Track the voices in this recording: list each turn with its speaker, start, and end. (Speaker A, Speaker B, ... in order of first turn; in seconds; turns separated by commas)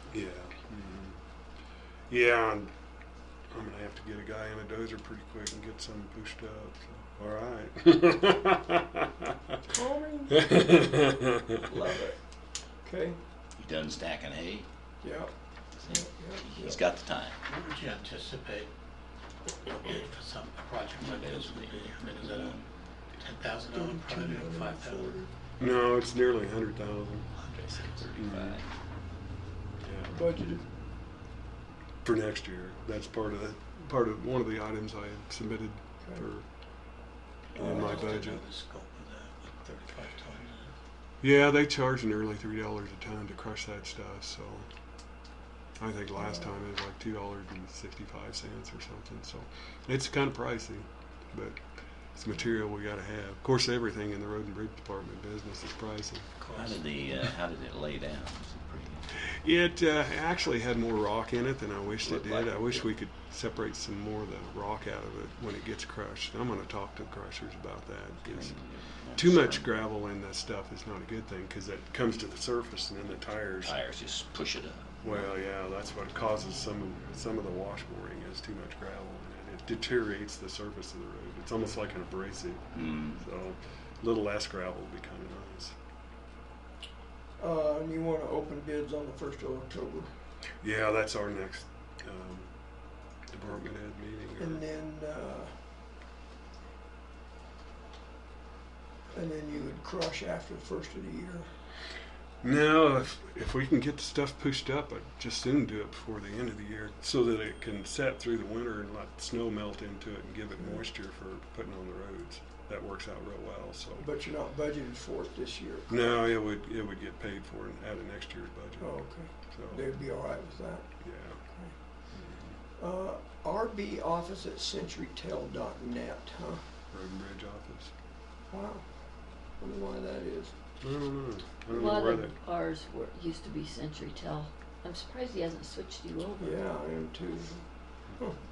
Speaker A: 0.1-1.2, Speaker A: 2.1-2.7, Speaker A: 3.5-9.3, Speaker B: 9.7-10.6, Speaker A: 10.4-11.6, Speaker B: 11.6-12.2, Speaker B: 12.8-13.2, Speaker C: 13.6-14.7, Speaker B: 15.0-15.3, Speaker C: 15.8-17.4, Speaker B: 15.8-16.8, Speaker D: 17.5-18.7, Speaker D: 19.6-22.6, Speaker C: 21.0-22.7, Speaker D: 23.2-25.2, Speaker B: 23.7-25.3, Speaker A: 25.6-27.3, Speaker D: 27.4-28.0, Speaker C: 27.7-28.7, Speaker A: 28.2-28.6, Speaker A: 29.8-30.2, Speaker B: 30.1-30.6, Speaker A: 32.0-36.5, Speaker B: 37.5-38.3, Speaker A: 37.5-38.4, Speaker D: 37.6-40.7, Speaker A: 41.2-44.7, Speaker A: 45.8-56.3, Speaker B: 46.2-46.5, Speaker D: 56.4-56.8, Speaker C: 56.5-59.0, Speaker A: 59.3-68.6, Speaker C: 62.0-62.8, Speaker C: 68.2-69.7, Speaker A: 69.2-73.8, Speaker C: 73.6-74.9, Speaker A: 75.0-85.8, Speaker C: 82.7-83.2, Speaker B: 87.4-90.1, Speaker A: 90.6-92.5, Speaker A: 93.3-94.6, Speaker B: 94.4-95.6, Speaker B: 99.1-101.5, Speaker A: 102.4-114.1, Speaker B: 110.6-110.8, Speaker B: 114.0-116.2, Speaker A: 115.9-119.8, Speaker B: 118.8-121.8, Speaker A: 121.0-121.4, Speaker A: 122.1-122.4, Speaker B: 122.8-126.6, Speaker A: 126.9-127.9, Speaker B: 128.5-128.9, Speaker B: 129.6-130.5, Speaker A: 130.8-132.3, Speaker E: 131.7-136.6, Speaker B: 136.4-138.4